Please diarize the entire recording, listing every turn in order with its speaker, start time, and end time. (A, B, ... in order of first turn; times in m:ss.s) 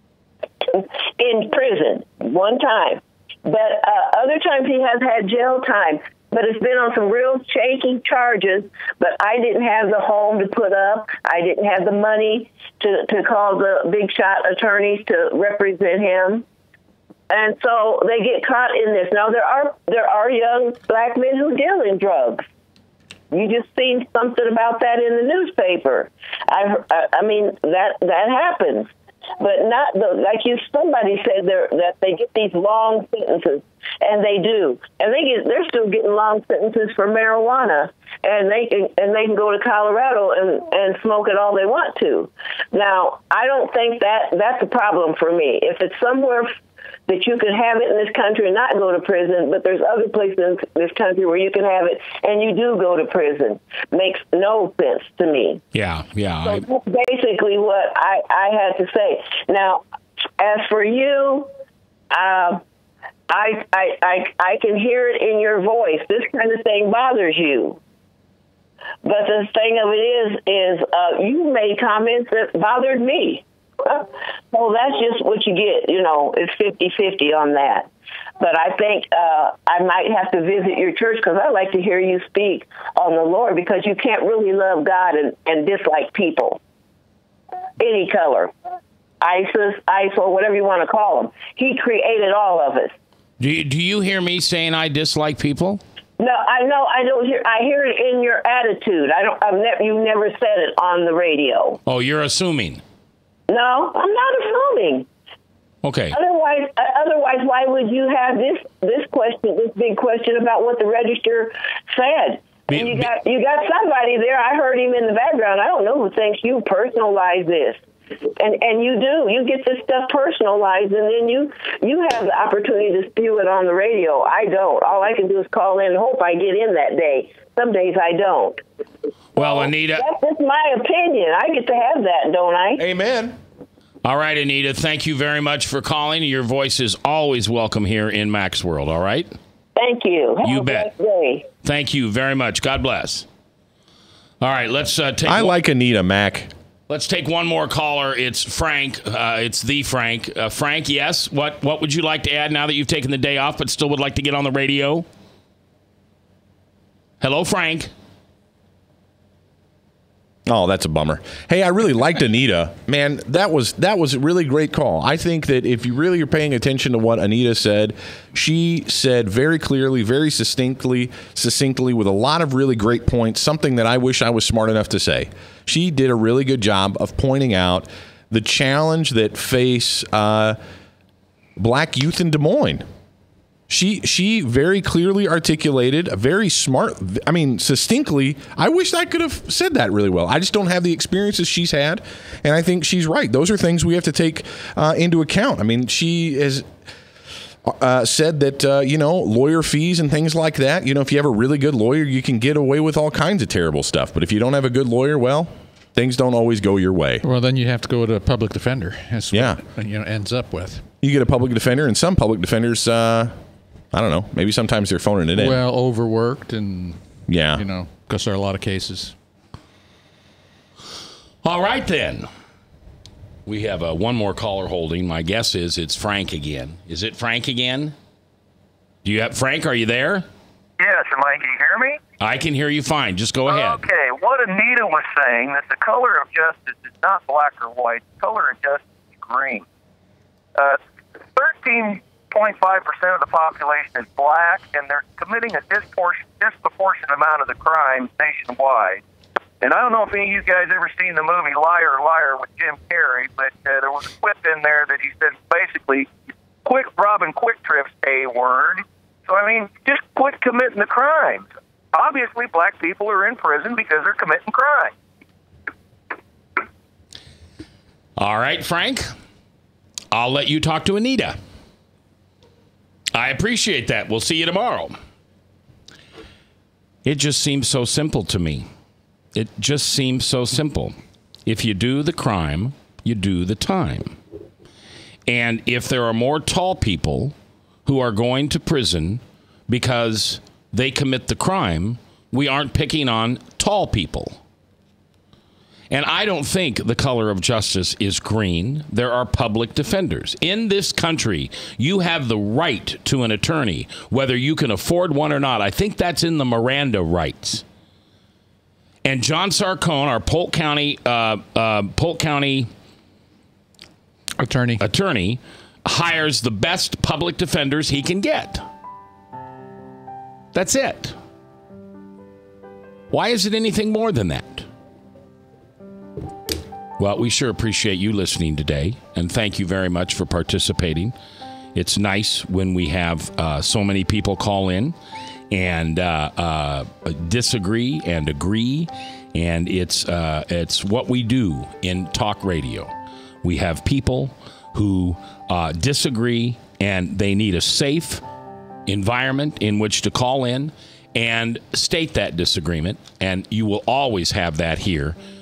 0:00.6-0:16.4 A
0:17.3-0:22.4 A
0:23.3-0:46.5 A
0:47.1-0:55.6 A
0:55.7-0:56.6 B
0:56.4-0:59.8 A
1:00.4-1:01.5 A
1:02.1-1:02.6 A
1:03.3-1:07.8 A
1:09.0-1:17.9 A
1:18.4-1:26.6 A
1:27.8-1:28.5 A
1:29.2-1:32.9 A
1:33.4-1:35.8 B
1:36.2-1:41.8 A
1:41.8-1:42.8 B
1:43.5-1:45.0 A
1:45.8-1:46.2 B
1:46.1-1:57.8 A
1:52.7-1:53.1 B
1:58.4-2:08.6 A
2:09.4-2:10.0 B
2:09.4-2:12.8 A
2:12.8-2:13.4 C
2:14.0-2:19.4 B
2:19.8-2:21.4 A
2:20.4-2:20.9 B
2:21.6-2:23.2 B
2:24.4-2:25.6 B
2:25.2-2:26.5 C
2:26.9-2:35.0 B
2:37.2-2:37.9 B
2:40.4-3:00.6 C
3:01.6-3:02.8 C
3:03.7-3:16.6 C
3:17.6-3:27.2 C
3:27.2-3:30.8 D
3:29.3-3:29.6 C
3:31.0-3:33.3 C
3:33.9-3:35.6 C
3:35.3-3:39.1 D
3:37.3-3:37.6 C
3:41.4-3:42.3 B
3:43.4-3:47.9 B
3:49.0-3:50.2 B
3:50.8-3:52.0 E
3:52.2-3:53.8 B
3:53.4-3:59.6 E
4:01.3-4:09.0 E
4:09.6-4:16.1 E
4:16.6-4:24.9 E
4:28.2-4:29.1 B
4:30.1-4:31.4 B
4:33.1-4:35.0 B
4:37.0-4:38.7 B
4:39.3-4:40.9 B
4:41.4-4:44.2 B
4:45.3-4:47.3 B
4:47.8-4:54.4 B
4:55.9-5:07.6 B
5:09.0-5:12.7 B
5:14.4-5:14.8 D
5:14.8-5:18.6 B
5:20.5-5:21.2 B
5:23.1-5:24.7 B
5:27.0-5:31.1 B
5:31.7-5:34.9 B
5:35.5-5:48.2 B
5:48.9-5:55.2 B